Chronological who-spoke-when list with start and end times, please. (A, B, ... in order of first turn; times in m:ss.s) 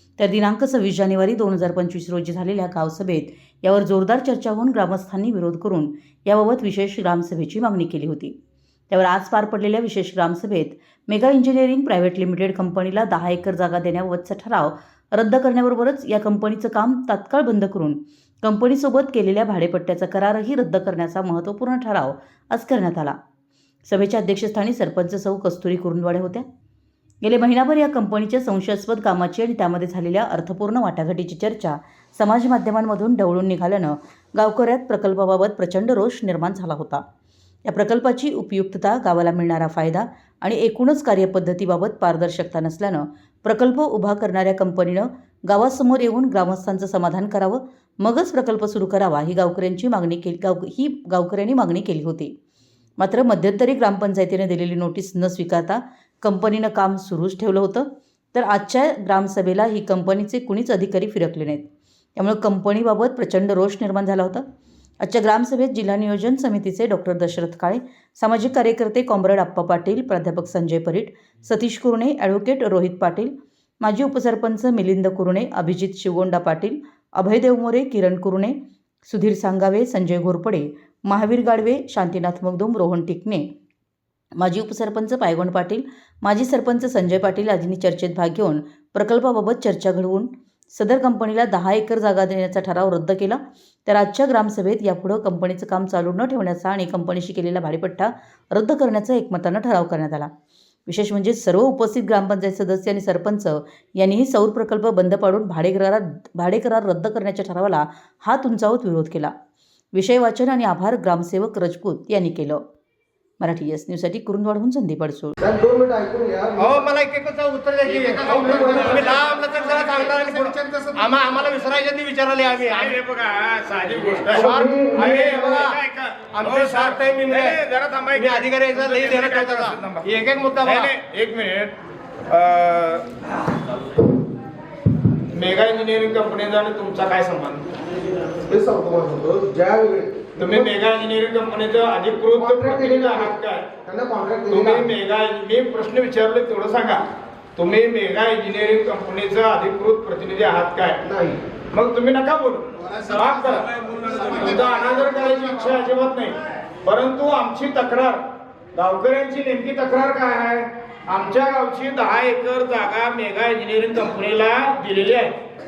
0:00.2-0:08.3 A
0:08.9-0:23.2 A
0:23.8-0:26.4 A
0:27.2-0:37.0 A
0:37.7-0:52.3 A
0:53.0-1:04.4 A
1:05.0-1:23.5 A
1:24.4-1:40.3 A
1:40.9-1:49.3 A
1:49.9-1:52.6 A
1:53.4-1:55.3 A
1:55.6-1:56.6 B
1:56.5-2:03.0 C
1:58.1-2:00.4 D
2:02.6-2:10.0 D
2:04.2-2:05.8 C
2:06.3-2:07.6 C
2:08.1-2:10.9 C
2:10.6-2:11.7 D
2:12.3-2:13.0 D
2:15.3-2:17.6 D
2:18.5-2:20.3 B
2:20.4-2:23.7 D
2:24.1-2:24.7 C
2:24.5-2:27.0 D
2:27.6-2:31.0 D
2:31.7-2:38.2 D
2:38.7-2:45.3 D